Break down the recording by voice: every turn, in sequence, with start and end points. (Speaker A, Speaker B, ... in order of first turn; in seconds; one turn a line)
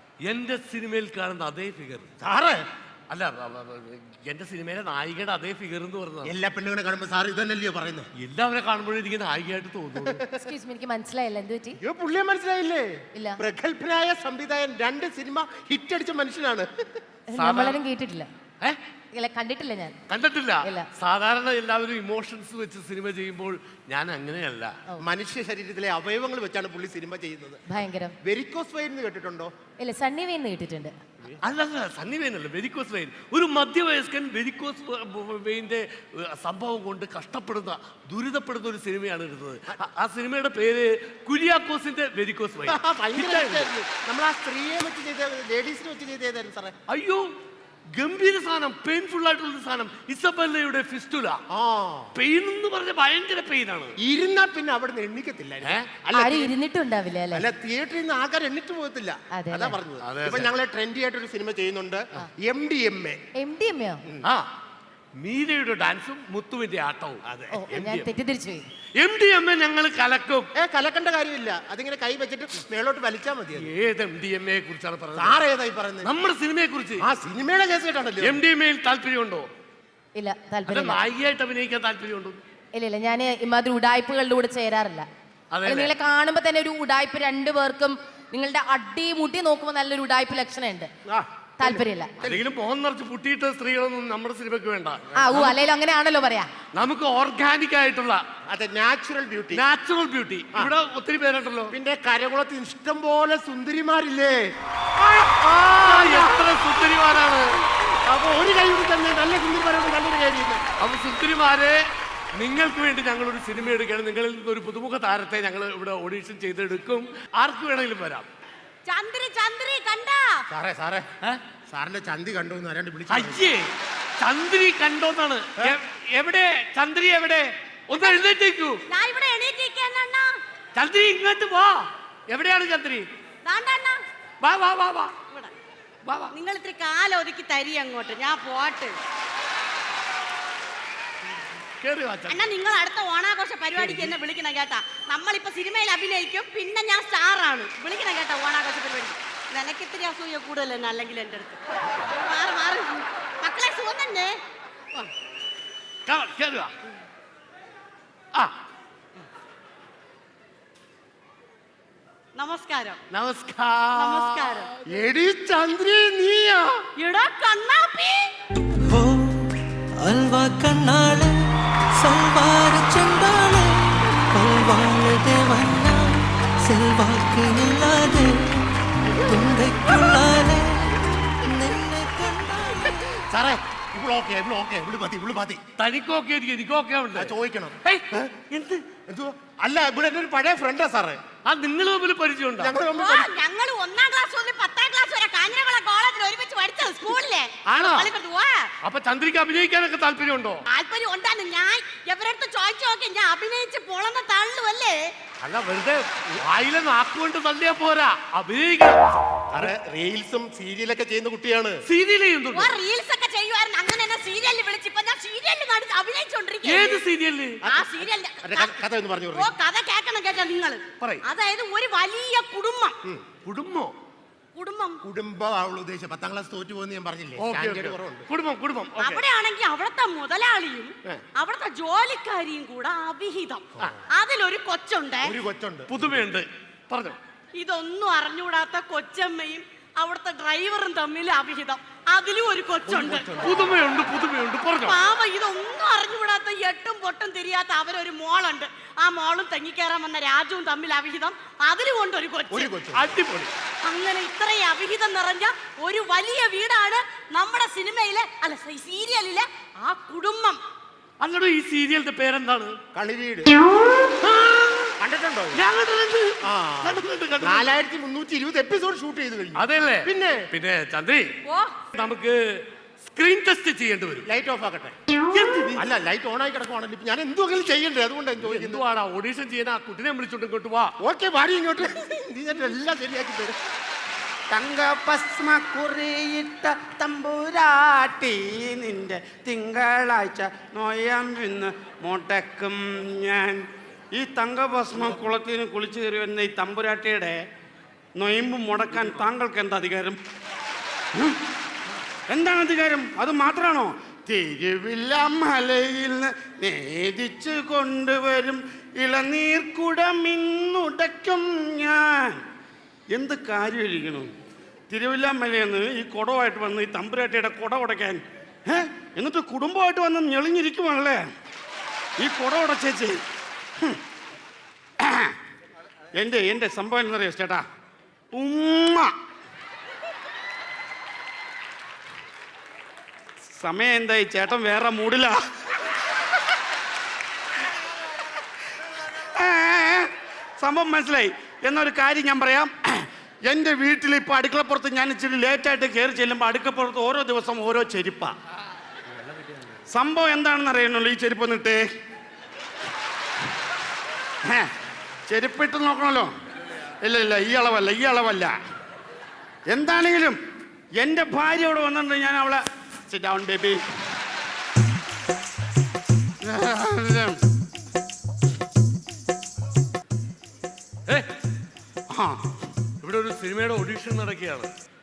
Speaker A: 0.3-2.1
Speaker B: 2.2-2.6
Speaker A: 3.1-6.3
Speaker B: 6.2-8.1
Speaker A: 8.2-10.2
Speaker B: 10.0-10.5
Speaker C: 10.3-11.8
Speaker B: 11.8-16.7
Speaker C: 13.2-13.4
Speaker C: 17.3-18.3
Speaker A: 17.3-17.8
Speaker C: 19.1-19.9
Speaker A: 20.1-24.7
Speaker B: 25.0-27.6
Speaker C: 27.7-28.1
Speaker B: 28.2-29.5
Speaker C: 29.8-30.9
Speaker A: 31.4-43.7
Speaker B: 42.7-46.7
Speaker A: 46.9-47.2
Speaker A: 48.0-51.4
Speaker B: 51.5-52.1
Speaker A: 52.1-54.0
Speaker B: 54.0-56.5
Speaker C: 56.1-57.5
Speaker B: 57.3-63.2
Speaker C: 59.3-59.8
Speaker A: 60.0-60.5
Speaker C: 63.4-64.0
Speaker A: 65.2-68.1
Speaker C: 67.5-68.6
Speaker A: 69.0-70.5
Speaker B: 70.5-73.7
Speaker A: 73.5-75.4
Speaker B: 75.1-76.1
Speaker A: 76.0-77.0
Speaker B: 77.0-78.4
Speaker A: 78.2-79.5
Speaker C: 80.2-81.0
Speaker A: 80.7-82.4
Speaker C: 82.7-85.1
Speaker A: 85.5-85.9
Speaker C: 85.6-90.9
Speaker B: 91.0-92.4
Speaker C: 91.6-92.1
Speaker A: 92.2-95.6
Speaker C: 95.2-96.5
Speaker A: 96.8-98.2
Speaker B: 98.5-99.6
Speaker A: 99.5-101.7
Speaker B: 101.7-104.4
Speaker B: 105.0-106.5
Speaker A: 105.7-107.5
Speaker B: 108.0-110.6
Speaker A: 110.8-111.8
Speaker A: 112.3-118.3
Speaker D: 118.8-120.4
Speaker B: 120.5-121.0
Speaker B: 121.7-123.4
Speaker A: 123.1-128.8
Speaker D: 127.9-128.3
Speaker D: 128.9-130.3
Speaker A: 130.7-133.1
Speaker D: 133.4-134.0
Speaker A: 134.4-135.1
Speaker A: 136.1-136.3
Speaker D: 136.3-138.9
Speaker A: 141.8-142.4
Speaker D: 142.3-154.3
Speaker A: 143.8-144.1
Speaker A: 156.1-156.7
Speaker D: 162.3-163.0
Speaker A: 163.1-164.6
Speaker D: 163.9-164.7
Speaker B: 164.9-166.8
Speaker D: 167.0-168.3
Speaker E: 168.8-183.2
Speaker B: 183.3-185.6
Speaker A: 185.8-188.8
Speaker B: 187.1-188.2
Speaker B: 189.1-191.2
Speaker A: 191.4-192.7
Speaker B: 192.6-193.4
Speaker D: 192.9-198.7
Speaker A: 197.7-198.1
Speaker A: 198.8-200.6
Speaker D: 200.7-205.1
Speaker A: 205.4-209.7
Speaker B: 209.5-211.8
Speaker A: 211.9-212.8
Speaker D: 212.5-217.0
Speaker A: 216.6-217.6
Speaker B: 217.6-219.5
Speaker D: 217.7-218.7
Speaker D: 219.3-223.0
Speaker A: 223.4-223.9
Speaker D: 224.6-225.0
Speaker B: 225.0-228.2
Speaker A: 227.4-229.2
Speaker D: 229.0-235.3
Speaker B: 235.2-235.9
Speaker A: 235.9-237.2
Speaker D: 237.5-243.4
Speaker B: 242.9-243.6
Speaker A: 243.3-245.0
Speaker D: 244.8-252.7
Speaker B: 252.5-253.0
Speaker A: 252.9-253.5
Speaker D: 253.8-260.6
Speaker A: 261.2-262.8
Speaker B: 262.9-263.5
Speaker A: 264.2-264.9
Speaker B: 265.0-265.6
Speaker A: 265.5-267.7
Speaker B: 266.4-270.5
Speaker A: 269.6-271.2
Speaker D: 271.4-271.8
Speaker A: 271.9-272.4
Speaker A: 273.0-274.3
Speaker B: 274.2-274.9
Speaker A: 275.3-275.8
Speaker B: 275.8-278.8
Speaker A: 278.4-280.9
Speaker B: 281.0-283.6
Speaker F: 284.5-293.6
Speaker F: 294.1-297.4
Speaker F: 298.2-300.2
Speaker F: 302.3-312.4
Speaker F: 313.1-314.3
Speaker F: 314.9-321.2
Speaker F: 322.2-323.2
Speaker F: 325.0-325.3
Speaker F: 326.2-327.6
Speaker F: 328.3-329.1
Speaker F: 333.6-335.4
Speaker F: 339.3-348.3
Speaker A: 349.1-349.7
Speaker F: 349.9-351.8
Speaker F: 355.3-356.3
Speaker F: 357.0-358.5
Speaker F: 359.7-360.4
Speaker F: 361.0-363.8
Speaker F: 366.4-367.4
Speaker F: 372.1-372.4
Speaker A: 373.0-374.7